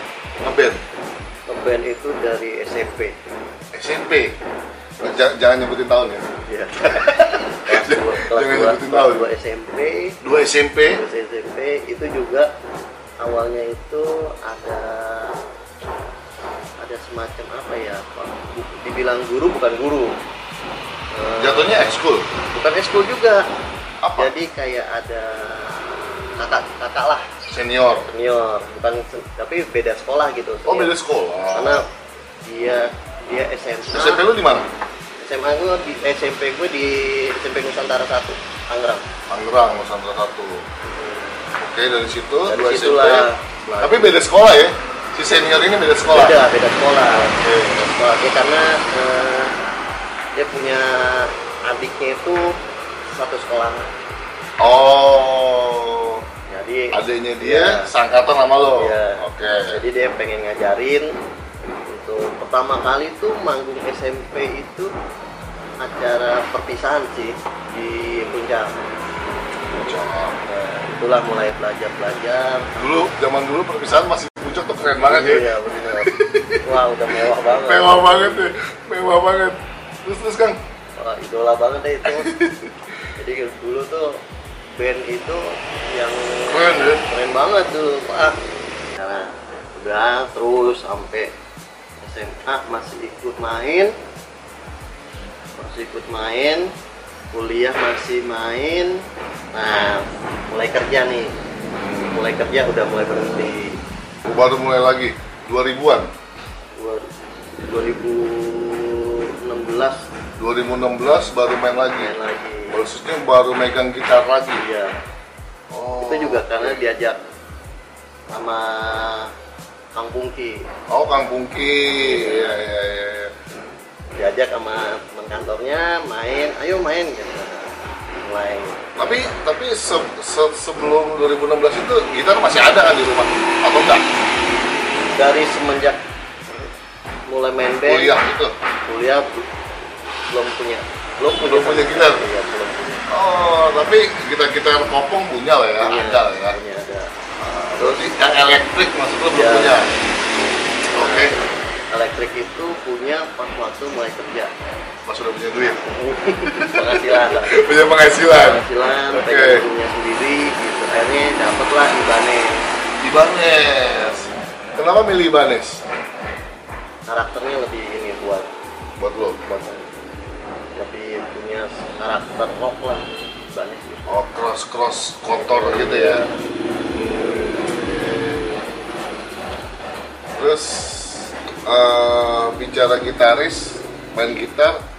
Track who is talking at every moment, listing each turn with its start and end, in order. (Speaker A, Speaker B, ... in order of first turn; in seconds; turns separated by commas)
Speaker A: 0.4-0.8, Speaker B: 1.5-3.1, Speaker A: 3.7-4.4, Speaker A: 5.0-6.2, Speaker B: 6.5-10.2, Speaker A: 6.8-9.3, Speaker A: 10.2-11.0, Speaker B: 10.9-12.5, Speaker B: 13.2-15.4, Speaker B: 16.8-20.2, Speaker B: 21.1-23.5, Speaker A: 21.4-22.3, Speaker A: 24.0-24.3, Speaker B: 24.2-27.3, Speaker A: 27.5-28.1, Speaker B: 28.1-30.9, Speaker A: 30.6-31.8, Speaker B: 31.5-31.8, Speaker B: 32.4-34.2, Speaker A: 33.9-34.7, Speaker B: 35.2-39.1, Speaker A: 39.3-40.6, Speaker B: 40.8-41.3, Speaker A: 41.6-43.3, Speaker B: 42.5-44.1, Speaker A: 43.8-46.4, Speaker B: 46.1-49.5, Speaker A: 47.1-47.8, Speaker B: 50.3-52.5, Speaker B: 53.1-53.9, Speaker A: 54.6-56.2, Speaker B: 56.5-57.9, Speaker A: 56.9-59.8, Speaker B: 58.8-61.1, Speaker B: 61.7-64.9, Speaker B: 65.8-68.8, Speaker B: 69.7-72.8, Speaker A: 69.8-70.4, Speaker A: 72.8-80.6, Speaker B: 74.9-78.5, Speaker B: 81.0-82.3, Speaker A: 82.0-82.8, Speaker B: 83.2-84.2, Speaker B: 84.7-88.4, Speaker A: 86.5-87.1, Speaker B: 89.0-91.3, Speaker B: 92.0-93.9, Speaker B: 95.5-96.7, Speaker B: 97.3-101.3, Speaker A: 101.8-102.2, Speaker B: 102.0-103.8, Speaker A: 104.2-106.1, Speaker B: 106.8-107.1, Speaker B: 107.6-110.0, Speaker A: 110.4-112.1, Speaker B: 112.0-112.8, Speaker A: 112.7-114.6, Speaker B: 114.6-115.0, Speaker A: 115.7-116.8, Speaker B: 116.0-117.2, Speaker B: 118.3-119.3, Speaker B: 119.9-120.7, Speaker A: 120.9-123.3, Speaker B: 122.0-122.6, Speaker B: 124.2-128.8, Speaker A: 129.0-134.1, Speaker B: 135.1-136.0, Speaker B: 137.3-138.2, Speaker A: 137.8-138.5, Speaker B: 138.9-139.5, Speaker B: 140.3-143.0, Speaker A: 141.4-142.2, Speaker A: 143.1-146.6, Speaker B: 145.8-148.1, Speaker A: 147.4-149.9, Speaker B: 149.3-149.8, Speaker A: 150.9-151.3, Speaker B: 150.9-151.4, Speaker B: 151.9-154.5, Speaker A: 155.1-155.8, Speaker B: 155.9-157.5, Speaker A: 156.4-159.7, Speaker B: 158.3-162.6, Speaker A: 163.0-165.8, Speaker B: 163.8-164.3, Speaker B: 167.1-168.5, Speaker A: 169.0-169.6, Speaker B: 169.5-169.8, Speaker B: 170.7-174.2, Speaker A: 174.1-176.2, Speaker B: 175.4-176.4, Speaker A: 176.9-178.7, Speaker A: 180.3-184.8